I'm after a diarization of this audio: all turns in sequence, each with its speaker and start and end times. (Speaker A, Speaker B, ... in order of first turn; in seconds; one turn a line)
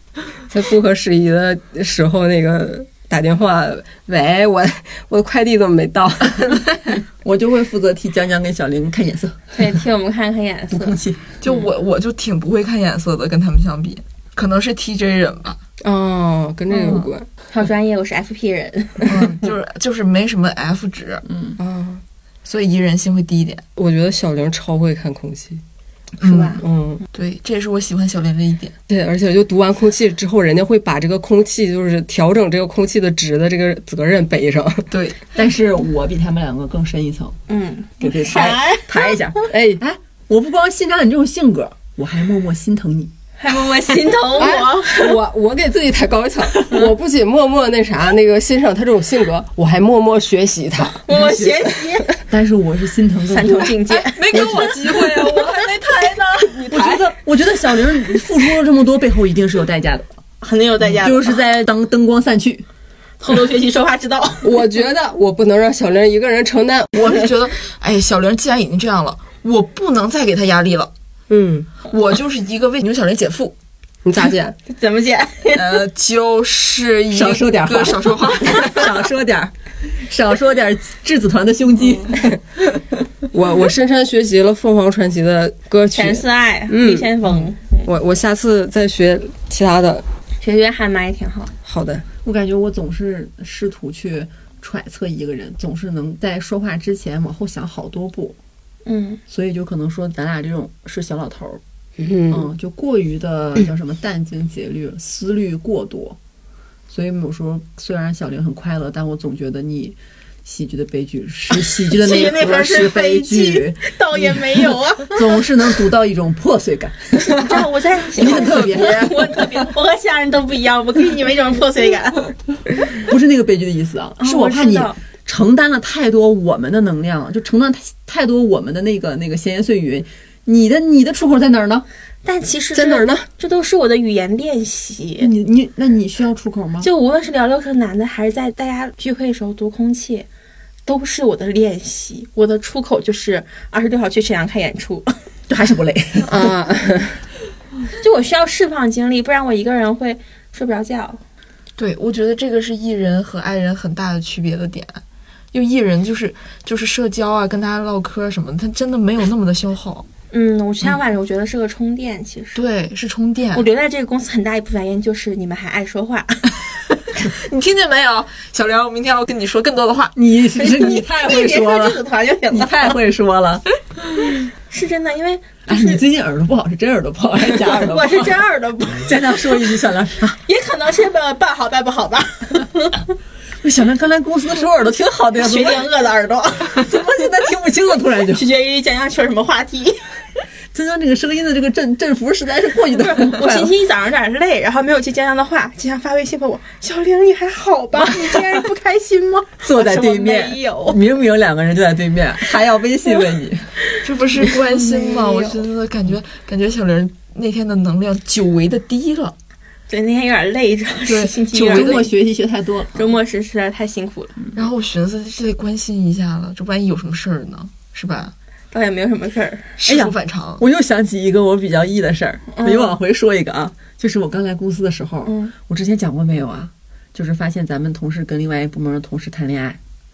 Speaker A: 0.5-6.9
Speaker B: 7.2-9.5
Speaker C: 9.5-11.0
Speaker B: 10.7-11.3
Speaker D: 11.4-15.6
Speaker A: 15.8-17.3
Speaker D: 16.8-17.1
Speaker C: 17.5-19.5
Speaker D: 19.1-21.2
Speaker B: 21.2-21.6
Speaker A: 21.6-22.0
Speaker D: 22.4-23.6
Speaker A: 23.8-25.6
Speaker C: 26.2-26.6
Speaker D: 26.2-28.8
Speaker A: 26.6-27.0
Speaker A: 28.9-34.9
Speaker D: 34.9-35.2
Speaker B: 35.3-37.4
Speaker C: 37.5-39.1
Speaker B: 38.0-43.1
Speaker A: 39.5-39.8
Speaker C: 43.4-45.1
Speaker A: 44.4-51.0
Speaker C: 51.0-52.1
Speaker B: 51.1-51.6
Speaker B: 52.3-54.9
Speaker C: 53.3-54.5
Speaker D: 54.1-57.0
Speaker A: 56.6-57.0
Speaker B: 56.7-60.1
Speaker C: 60.4-61.4
Speaker B: 60.8-62.6
Speaker C: 63.2-64.5
Speaker A: 64.4-67.2
Speaker D: 67.0-70.9
Speaker A: 71.3-71.7
Speaker D: 71.9-73.5
Speaker A: 74.0-74.5
Speaker C: 74.7-75.7
Speaker D: 75.5-78.9
Speaker B: 77.1-82.3
Speaker A: 83.3-87.1
Speaker C: 85.9-87.9
Speaker A: 87.8-90.0
Speaker C: 90.4-91.5
Speaker A: 91.6-92.0
Speaker B: 92.2-98.4
Speaker C: 98.8-99.2
Speaker B: 99.3-101.6
Speaker A: 102.0-102.5
Speaker B: 102.3-106.2
Speaker B: 106.9-119.4
Speaker C: 111.8-115.4
Speaker C: 117.1-122.3
Speaker D: 118.3-118.9
Speaker B: 122.9-131.9
Speaker C: 124.2-125.0
Speaker C: 132.2-135.3
Speaker A: 132.7-133.3
Speaker B: 135.2-136.9
Speaker C: 136.8-140.3
Speaker C: 140.8-145.1
Speaker B: 145.5-146.6
Speaker A: 146.2-147.2
Speaker C: 148.0-151.2
Speaker D: 151.8-155.0
Speaker D: 155.5-160.1
Speaker C: 160.3-162.6
Speaker D: 162.5-163.7
Speaker C: 163.5-166.4
Speaker D: 167.2-170.1
Speaker B: 170.1-173.6
Speaker C: 170.6-172.9
Speaker C: 174.7-176.0
Speaker B: 175.7-178.4
Speaker C: 177.6-179.3
Speaker B: 179.0-180.4
Speaker C: 180.4-183.0
Speaker B: 183.6-185.8
Speaker C: 185.4-186.9
Speaker B: 186.7-188.4
Speaker C: 188.3-190.0
Speaker B: 190.7-193.7
Speaker C: 192.9-201.0
Speaker B: 198.0-198.4
Speaker B: 199.6-203.7
Speaker D: 204.0-209.3
Speaker C: 204.5-205.6
Speaker C: 209.9-212.1
Speaker D: 211.1-212.1
Speaker B: 211.6-213.1
Speaker C: 212.9-214.3
Speaker D: 214.5-218.3
Speaker C: 218.7-219.7
Speaker D: 219.8-220.6
Speaker B: 219.9-229.8
Speaker C: 222.5-222.9
Speaker C: 225.2-225.5